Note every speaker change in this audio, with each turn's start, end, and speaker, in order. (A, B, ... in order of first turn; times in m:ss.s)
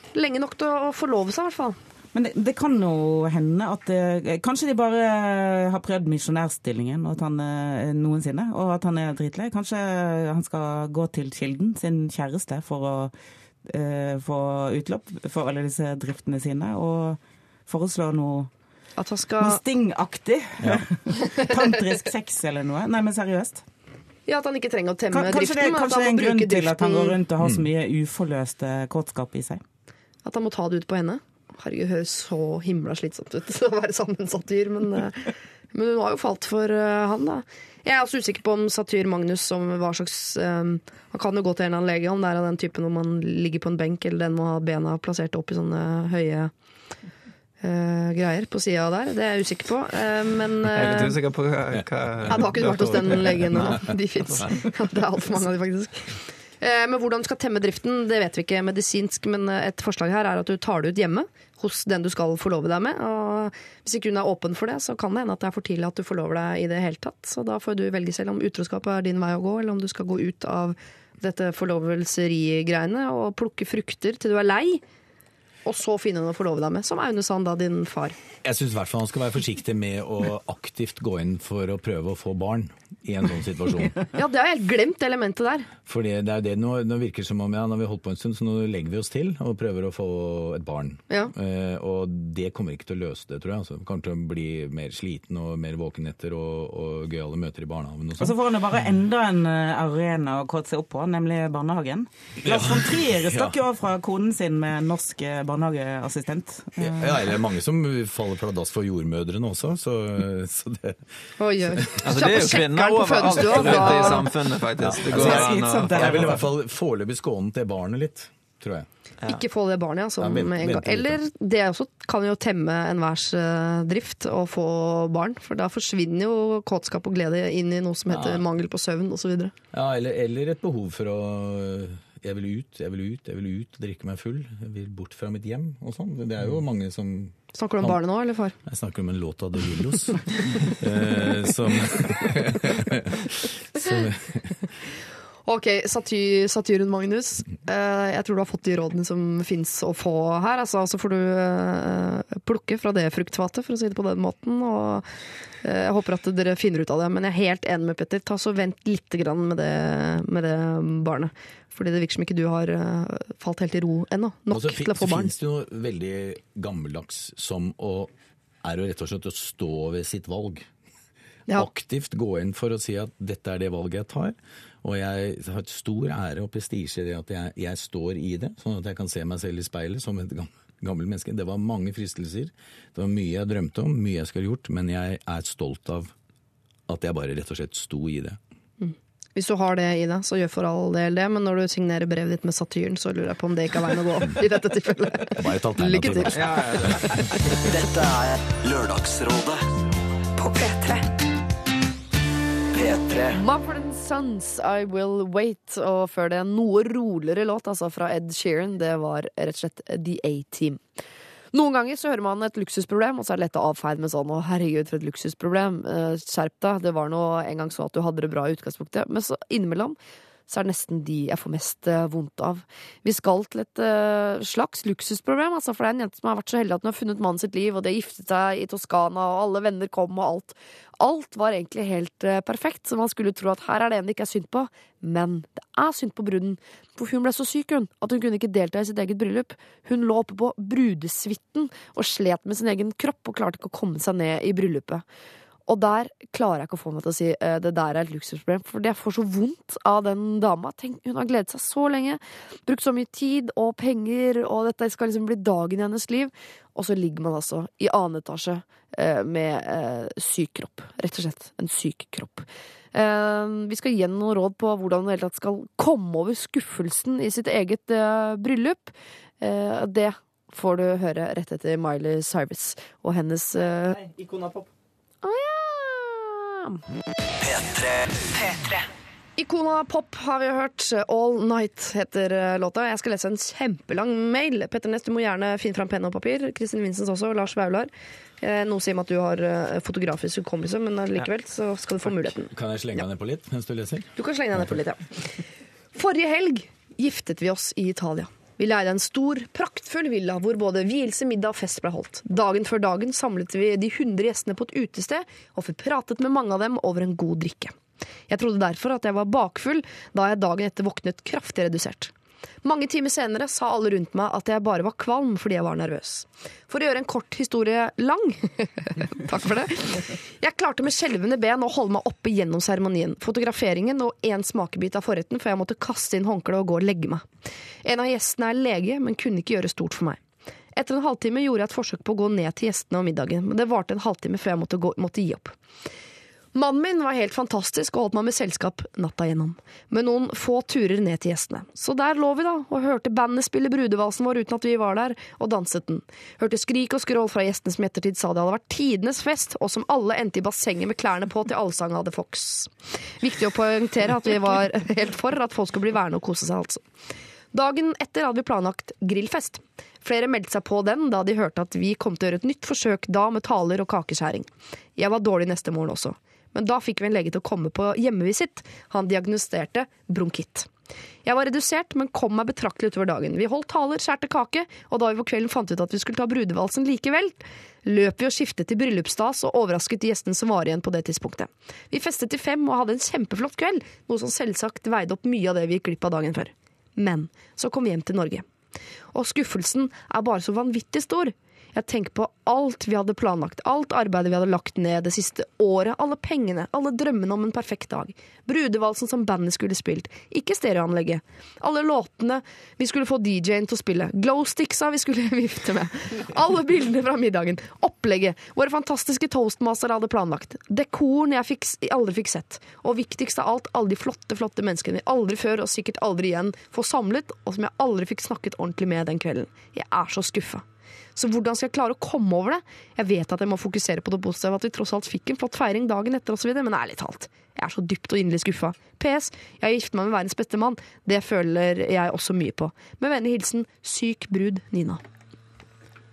0:00.1-0:01.8 A
0:02.1-0:13.1 B
0:13.6-0:18.5 B
0:19.0-0:19.6 A
0:19.4-0:23.6 B
0:20.6-0:20.8 C
0:24.3-0:27.2 A
0:25.1-0:29.6 B
0:30.2-0:46.5 A
0:47.6-0:51.2 A
0:50.7-0:54.5 D
0:52.3-1:14.8 A
1:15.6-1:18.2 A
1:18.4-1:24.0 C
1:24.1-1:25.7 A
1:25.8-1:38.4 C
1:38.2-1:47.4 B
1:42.4-1:43.5 C
1:46.8-1:51.0 C
1:51.4-1:54.3 A
1:52.0-1:56.4 D
1:54.8-1:58.9 C
1:55.0-1:56.4 B
1:59.2-2:09.5 A
2:00.2-2:01.2 C
2:08.1-2:08.4 C
2:09.7-2:18.0 C
2:17.5-2:18.6 A
2:18.6-2:24.6 C
2:25.4-2:35.0 A
2:35.6-2:45.3 A
2:44.5-2:48.1 C
2:48.6-2:50.7 C
2:51.5-3:06.1 C
3:06.9-3:08.4 C
3:08.8-3:17.6 A
3:15.4-3:16.5 C
3:16.3-3:17.2 D
3:17.6-3:19.7 E
3:20.4-3:21.1 A
3:22.7-3:23.4 E
3:23.3-3:30.8 A
3:31.5-3:40.0 A
3:40.5-4:05.0 A
4:05.7-4:34.0 A
4:34.0-4:34.7 D
4:35.2-4:36.8 A
4:37.4-4:38.7 E
4:39.4-4:52.5 A
4:52.5-4:54.1 C
4:54.2-4:55.4 A
4:55.9-5:07.7 A
5:08.3-5:12.1 A
5:12.6-5:27.2 A
5:27.8-5:30.2 A
5:30.7-5:35.5 A
5:36.5-5:56.8 A
5:57.5-6:10.7 A
6:11.2-6:28.4 A
6:29.1-7:00.6 A
7:01.2-7:15.0 A